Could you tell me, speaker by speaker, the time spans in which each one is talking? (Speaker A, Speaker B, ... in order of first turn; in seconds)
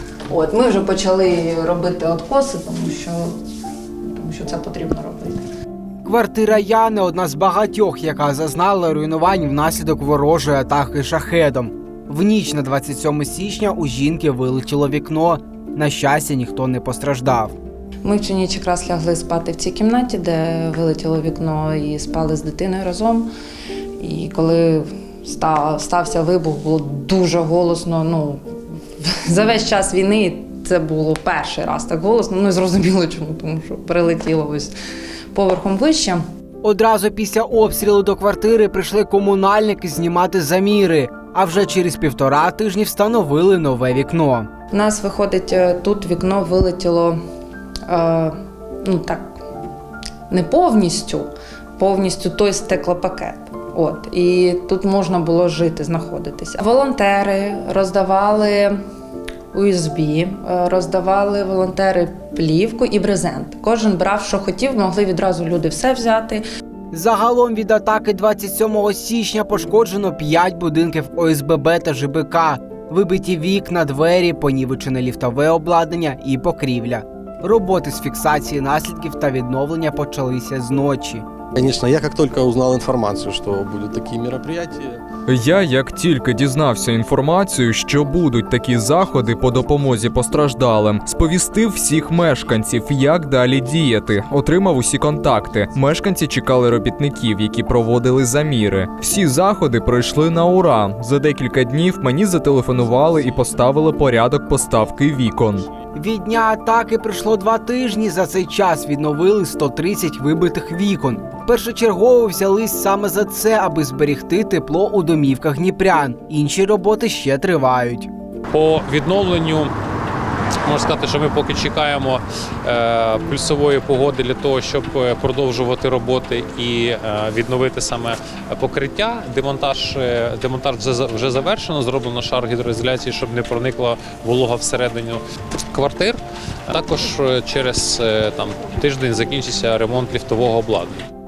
Speaker A: 0.3-3.3, 4.0-5.4, 18.0-23.3, 24.0-28.4, 29.0-34.7, 35.3-36.2, 44.7-47.2, 47.9-49.4, 50.3-58.8, 59.5-66.4
Speaker B: 6.0-17.6, 36.6-44.5, 66.9-81.2, 105.9-118.1
Speaker C: 81.5-85.0
Speaker D: 85.3-105.7
Speaker E: 118.5-119.7, 120.6-141.1